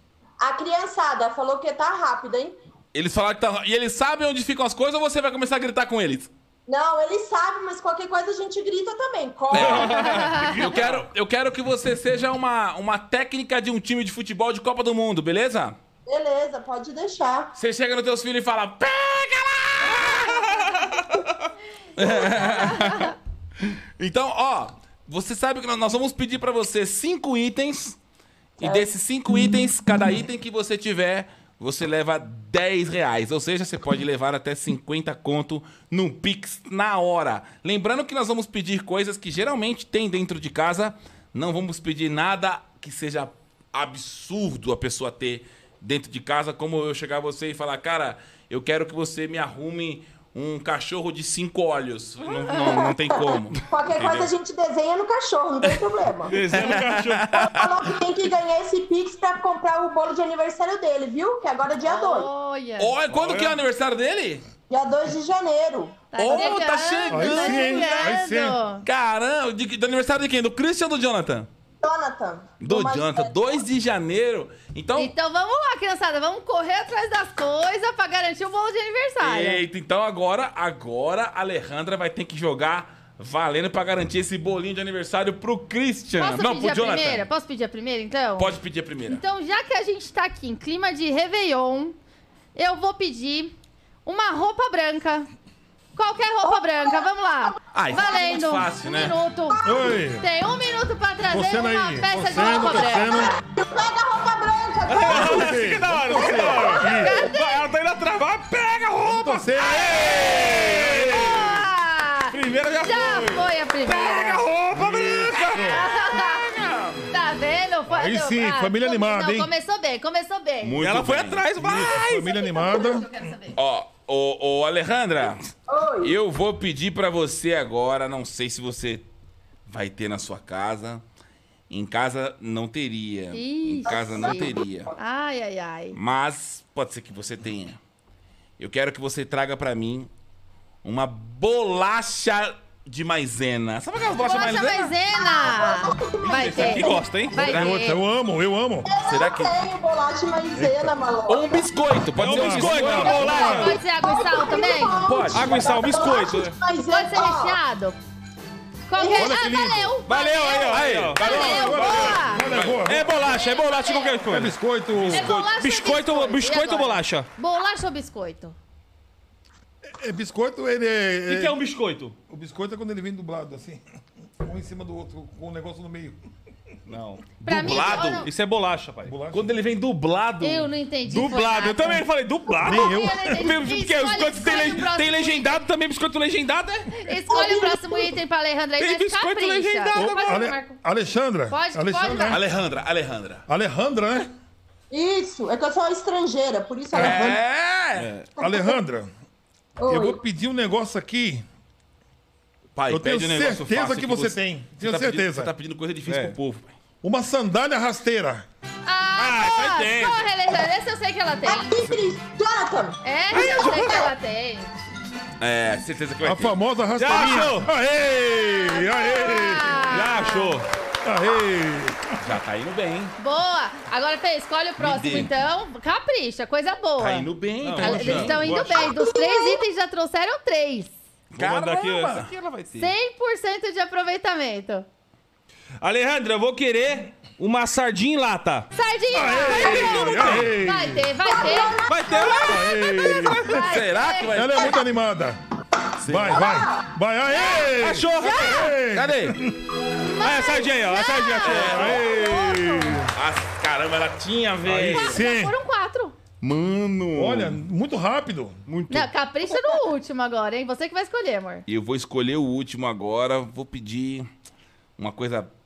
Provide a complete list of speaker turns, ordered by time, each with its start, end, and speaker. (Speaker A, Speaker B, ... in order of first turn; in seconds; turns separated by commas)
Speaker A: 0.4-2.5, Speaker B: 2.9-6.3, Speaker A: 6.7-10.2, Speaker B: 9.5-15.8, Speaker C: 9.5-11.1, Speaker D: 9.9-10.6, Speaker A: 16.1-17.5, Speaker B: 17.6-20.5, Speaker C: 20.6-21.0, Speaker B: 21.9-23.1, Speaker D: 22.3-23.1, Speaker B: 23.7-28.0, Speaker B: 28.6-54.3, Speaker A: 28.6-28.9, Speaker D: 52.3-52.8, Speaker A: 52.6-56.4, Speaker C: 56.3-57.4, Speaker B: 56.5-57.9, Speaker A: 57.4-62.3, Speaker D: 61.8-62.9, Speaker B: 62.8-64.4, Speaker C: 63.1-63.6, Speaker A: 64.7-66.5, Speaker D: 66.1-68.8, Speaker B: 66.2-68.1, Speaker E: 67.1-68.6, Speaker B: 68.8-71.5, Speaker A: 71.8-73.6, Speaker B: 72.6-75.1, Speaker D: 75.0-79.6, Speaker B: 79.2-87.2, Speaker D: 86.2-88.5, Speaker B: 88.4-89.2, Speaker D: 89.1-92.0, Speaker D: 92.5-93.5, Speaker D: 94.0-95.3, Speaker D: 95.9-103.4, Speaker A: 96.4-97.5, Speaker B: 97.7-99.2, Speaker A: 99.6-100.0, Speaker E: 99.6-100.2, Speaker E: 101.3-103.3, Speaker A: 103.4-105.6, Speaker C: 104.9-111.6, Speaker E: 105.0-107.2, Speaker D: 106.2-107.7, Speaker A: 106.3-106.7, Speaker E: 109.0-111.3, Speaker D: 109.6-114.5, Speaker C: 112.3-115.8, Speaker E: 114.7-115.8, Speaker D: 115.6-116.4, Speaker B: 116.5-117.0, Speaker D: 117.1-120.9, Speaker E: 117.9-119.5, Speaker B: 120.6-121.5, Speaker C: 120.8-122.4, Speaker E: 121.6-123.1, Speaker D: 122.1-123.5, Speaker B: 123.5-129.1, Speaker A: 125.7-126.2, Speaker B: 129.7-131.0, Speaker B: 131.7-134.9, Speaker D: 133.3-136.0, Speaker A: 133.9-134.4, Speaker B: 135.9-137.8, Speaker B: 138.6-140.1, Speaker B: 140.8-144.9, Speaker D: 144.2-148.0, Speaker A: 145.1-147.0, Speaker C: 146.3-147.4, Speaker E: 147.3-148.9, Speaker B: 147.4-147.7, Speaker A: 148.8-151.7, Speaker B: 149.0-149.6, Speaker E: 150.6-150.9, Speaker B: 151.2-153.6, Speaker C: 152.2-153.8, Speaker E: 152.2-153.8, Speaker D: 152.9-155.2, Speaker A: 153.6-157.6, Speaker B: 154.9-155.7, Speaker C: 155.3-156.6, Speaker D: 156.9-158.0, Speaker D: 158.9-162.5, Speaker A: 158.9-159.4, Speaker E: 159.1-159.9, Speaker C: 160.1-162.3, Speaker B: 160.7-163.0, Speaker E: 161.2-163.1, Speaker C: 162.8-167.3, Speaker D: 163.2-164.3, Speaker E: 164.3-165.3, Speaker D: 165.1-168.5, Speaker E: 169.8-171.6, Speaker C: 171.3-172.2, Speaker E: 172.3-173.8, Speaker E: 174.4-176.2, Speaker C: 176.9-179.2, Speaker B: 177.4-178.3, Speaker D: 177.4-178.3, Speaker E: 179.0-179.5, Speaker B: 179.3-180.7, Speaker D: 180.4-182.0, Speaker C: 181.1-187.0, Speaker E: 182.5-183.4, Speaker D: 182.6-185.6, Speaker D: 186.9-190.8, Speaker A: 187.3-188.2, Speaker C: 188.8-190.2, Speaker E: 189.9-192.4, Speaker D: 191.5-192.4, Speaker B: 192.3-193.4, Speaker E: 193.5-194.3, Speaker A: 194.9-197.4, Speaker E: 196.9-197.4, Speaker B: 196.9-198.1, Speaker C: 197.9-198.3, Speaker A: 198.4-198.8, Speaker E: 198.4-199.1, Speaker A: 199.8-200.2, Speaker E: 199.8-201.4, Speaker B: 202.8-206.8, Speaker E: 202.9-205.5, Speaker C: 206.1-206.3, Speaker E: 207.0-208.4, Speaker D: 208.8-211.8, Speaker C: 209.2-210.3, Speaker A: 211.4-213.0, Speaker D: 213.0-214.7, Speaker B: 215.4-216.6, Speaker E: 216.2-219.9, Speaker C: 217.0-217.7, Speaker D: 218.3-220.6, Speaker C: 219.8-220.7, Speaker E: 221.0-222.2, Speaker B: 222.2-223.1, Speaker D: 223.2-230.9, Speaker B: 224.8-225.3, Speaker B: 227.0-228.8, Speaker C: 227.6-228.8, Speaker A: 228.7-229.6, Speaker B: 231.3-232.3, Speaker C: 231.3-232.9, Speaker D: 232.7-234.8, Speaker C: 235.8-238.7, Speaker D: 238.7-244.5, Speaker E: 239.1-241.1, Speaker A: 239.6-240.0, Speaker C: 239.6-240.5, Speaker A: 241.2-243.2, Speaker C: 241.9-243.2, Speaker E: 242.4-243.5, Speaker B: 243.6-244.8, Speaker E: 244.3-245.4, Speaker B: 246.0-246.5, Speaker E: 246.0-249.6, Speaker A: 246.3-246.9, Speaker D: 247.3-248.7, Speaker C: 247.8-248.7, Speaker B: 248.9-249.4, Speaker D: 250.0-253.1, Speaker C: 250.2-252.0, Speaker B: 251.4-252.0, Speaker E: 251.6-253.1, Speaker B: 253.1-255.2, Speaker E: 254.8-255.6, Speaker D: 254.9-256.1, Speaker B: 256.4-257.6, Speaker E: 257.1-258.6, Speaker B: 258.7-259.1, Speaker D: 258.9-261.6, Speaker B: 261.7-264.3, Speaker B: 265.0-265.5